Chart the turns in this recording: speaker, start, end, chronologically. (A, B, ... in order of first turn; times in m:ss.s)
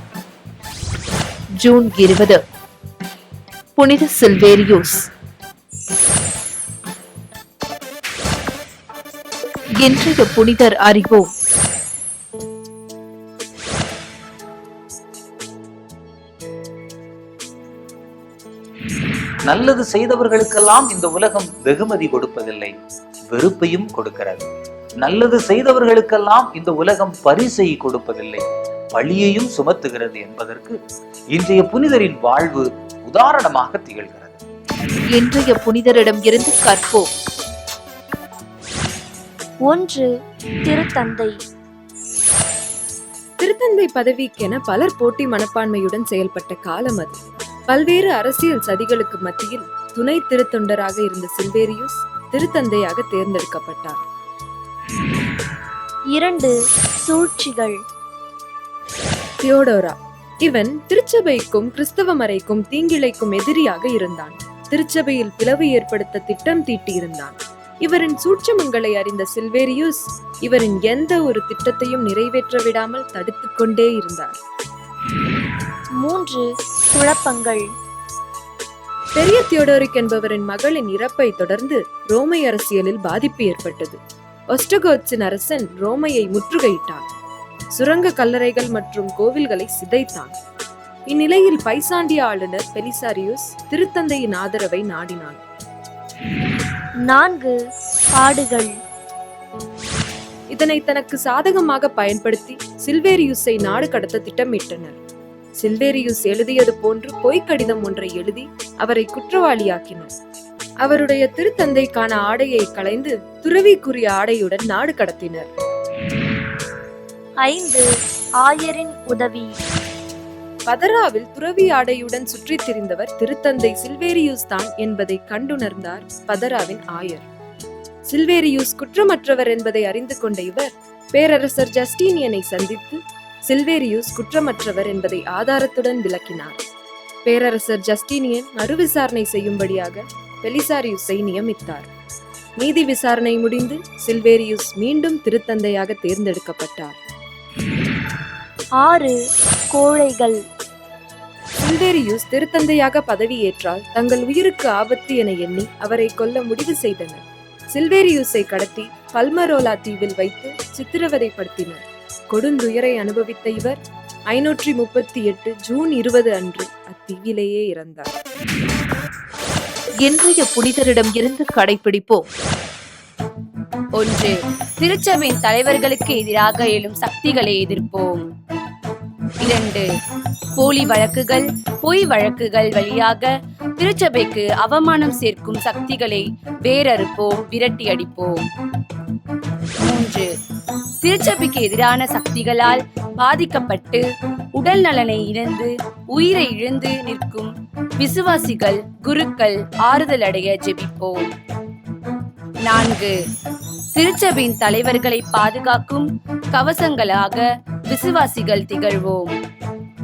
0:01.6-0:02.4 A
0:03.8-0:05.1 A
0:09.8-0:11.3 A
0:19.4-0:22.8 B
0:23.3-0:34.4 B
0:35.1-0:37.1 A
0:39.7-0:40.1 C
0:40.7-0:41.3 C
0:43.4-0:54.0 D
0:56.1-0:57.8 C
0:59.4-1:14.4 D
1:16.0-1:17.6 C
1:19.2-1:24.0 D
1:24.5-1:27.1 D
1:27.7-1:30.4 D
1:31.1-1:35.4 D
1:37.1-1:37.6 C
1:38.1-1:38.7 C
1:40.5-1:45.0 D
1:45.6-1:50.1 D
1:50.8-1:55.5 D
1:57.4-1:57.8 C
1:58.4-1:59.5 C
2:00.7-2:07.3 D
2:08.1-2:16.6 D
2:17.2-2:21.9 D
2:22.6-2:27.0 D
2:28.8-2:29.2 C
2:29.7-2:30.4 C
2:31.6-2:43.8 D
2:44.3-2:48.1 D
2:50.0-2:52.2 A
2:54.0-2:58.2 E
2:59.4-2:59.8 E
3:00.6-3:08.4 E
3:09.8-3:10.3 E
3:11.0-3:14.0 E
3:14.6-3:21.3 E
3:22.6-3:23.1 E
3:23.9-3:29.3 E